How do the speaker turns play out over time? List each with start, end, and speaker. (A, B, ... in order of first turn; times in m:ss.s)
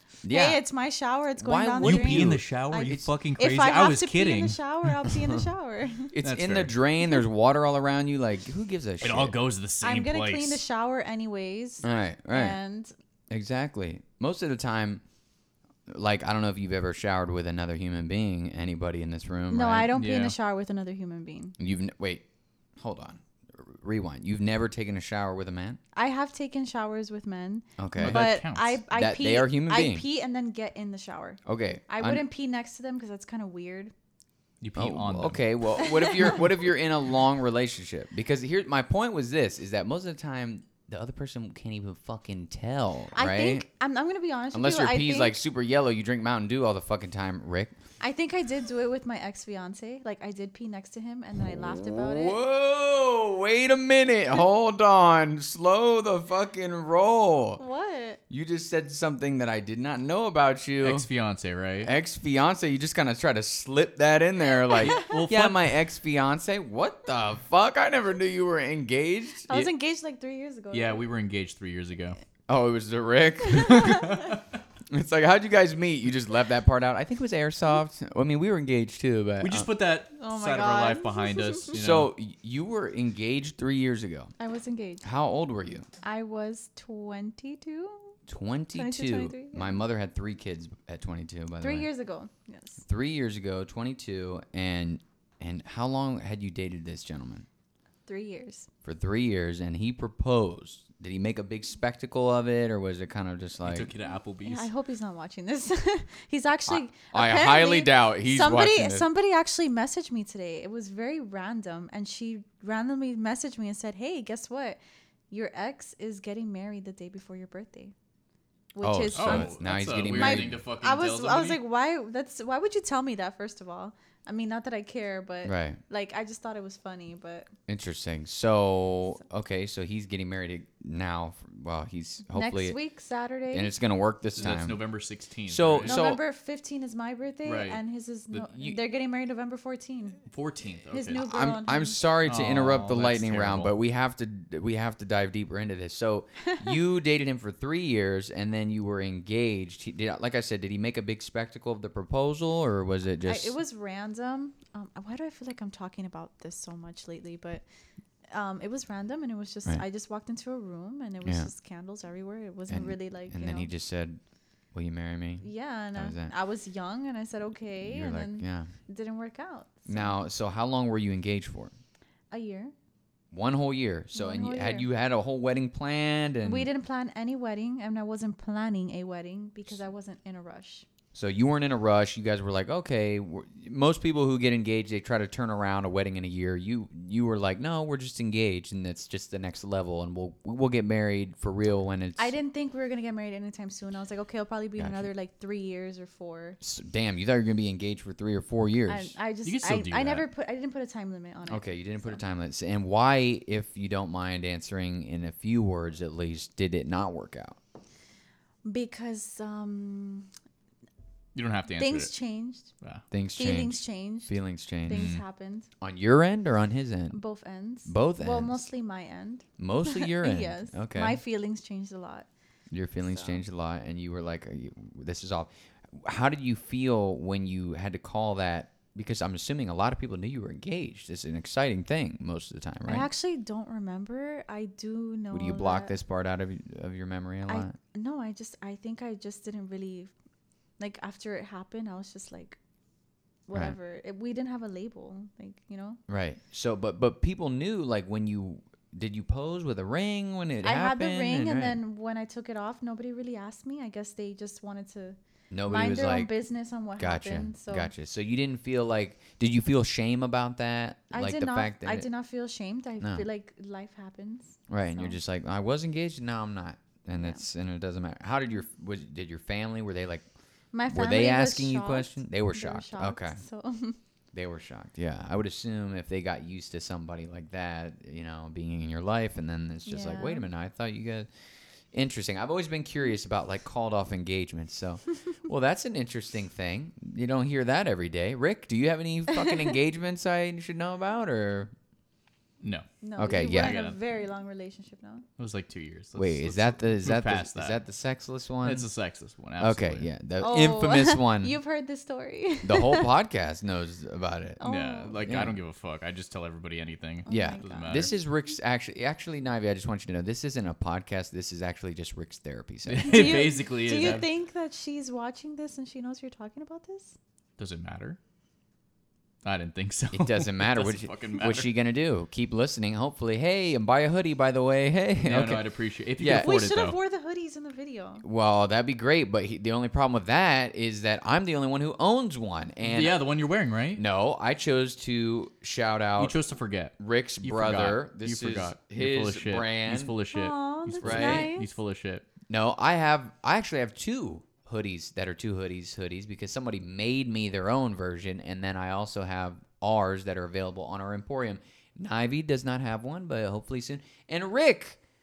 0:00.2-0:00.6 A
0:00.3-0:06.1 B
0:01.4-0:03.1 A
0:01.8-0:05.1 C
0:06.1-0:09.4 A
0:06.2-0:06.7 C
0:09.0-0:10.6 C
0:09.8-0:12.9 B
0:11.8-0:12.6 A
0:13.3-0:15.0 A
0:15.9-0:19.9 A
0:19.5-0:21.6 B
0:19.9-0:20.3 C
0:21.6-0:22.2 A
0:22.8-0:25.8 A
0:25.9-0:33.9 B
0:27.8-0:28.3 A
0:28.0-0:28.8 C
0:28.9-0:30.0 A
0:31.4-0:32.2 A
0:34.6-0:35.5 C
0:34.8-0:43.6 A
0:43.1-0:45.3 B
0:44.5-0:47.7 A
0:48.0-0:52.4 B
0:51.4-0:57.6 A
0:57.6-0:58.2 B
0:58.3-1:01.1 A
1:00.8-1:01.9 C
1:01.8-1:09.5 A
1:04.8-1:05.7 C
1:09.5-1:11.0 B
1:10.7-1:12.2 C
1:12.5-1:14.4 A
1:13.7-1:14.0 B
1:13.7-1:14.4 C
1:14.9-1:19.7 A
1:19.4-1:22.1 C
1:20.1-1:21.7 B
1:21.7-1:24.3 A
1:24.4-1:25.0 B
1:25.0-1:25.9 A
1:26.0-1:28.1 B
1:28.3-1:31.9 A
1:28.7-1:29.8 B
1:31.6-1:32.8 B
1:32.8-1:37.4 A
1:38.0-1:38.7 B
1:38.8-1:43.9 A
1:43.6-1:44.7 C
1:44.4-1:54.8 B
1:46.7-1:49.1 A
1:55.3-1:57.9 B
1:58.7-2:07.5 B
1:58.8-2:00.6 A
1:59.1-2:01.6 C
2:05.4-2:05.8 A
2:07.7-2:12.8 A
2:12.3-2:13.7 B
2:13.5-2:14.8 A
2:14.4-2:16.0 C
2:15.5-2:16.2 A
2:15.8-2:20.2 B
2:17.4-2:17.8 C
2:18.4-2:18.8 A
2:20.3-2:21.2 C
2:20.9-2:22.0 B
2:21.2-2:33.6 A
2:22.2-2:23.7 C
2:33.2-2:37.6 B
2:38.3-2:43.7 B
2:42.7-2:44.2 A
2:44.7-2:46.3 A
2:45.4-2:50.1 B
2:47.8-2:48.7 A
2:49.9-2:51.7 A
2:52.3-2:52.7 B
2:53.3-2:56.7 A
2:54.1-2:54.9 B
2:56.4-3:00.8 B
3:01.1-3:12.3 A
3:12.2-3:16.6 B
3:14.8-3:15.1 A
3:16.6-3:19.1 A
3:18.9-3:22.2 B
3:19.4-3:20.3 C
3:21.5-3:27.6 A
3:28.6-3:30.3 B
3:31.3-3:32.1 C
3:31.8-3:32.7 B
3:33.1-3:35.2 A
3:33.4-3:35.7 B
3:34.9-3:35.2 C
3:35.8-3:37.2 A
3:37.1-3:42.3 B
3:37.8-3:38.7 A
3:39.6-3:41.2 A
3:42.7-3:53.1 A
3:43.0-3:43.4 B
3:52.8-3:55.9 B
3:55.3-3:57.8 A
3:57.5-4:00.1 B
4:00.8-4:02.6 B
4:03.5-4:06.0 B
4:06.1-4:11.8 A
4:10.6-4:17.9 B
4:15.5-4:16.3 A
4:17.0-4:22.1 A
4:21.1-4:25.2 B
4:24.7-4:30.2 A
4:27.1-4:27.4 B
4:30.7-4:34.0 B
4:30.9-4:33.4 A
4:34.3-4:41.3 A
4:39.8-4:40.5 B
4:41.9-4:51.7 A
4:52.6-4:54.0 C
4:53.0-4:55.2 B
4:53.2-4:53.8 A
4:55.4-4:57.8 C
4:56.1-4:58.9 A
4:58.6-5:00.1 C
4:59.6-5:01.6 A
5:00.4-5:03.1 B
5:02.6-5:04.6 A
5:04.6-5:05.2 B
5:04.6-5:08.1 C
5:05.2-5:05.6 A
5:07.2-5:07.9 B
5:07.3-5:13.4 A
5:12.9-5:14.3 C
5:13.0-5:17.1 B
5:17.6-5:18.2 C
5:19.4-5:21.7 C
5:20.1-5:25.6 A
5:25.2-5:27.0 C
5:26.2-5:26.5 A
5:26.2-5:28.2 B
5:28.2-5:33.2 A
5:32.8-5:34.0 C
5:33.9-5:36.4 A
5:36.2-5:42.2 C
5:37.0-5:40.1 A
5:40.3-5:41.7 B
5:41.0-5:41.5 A
5:42.5-5:55.0 A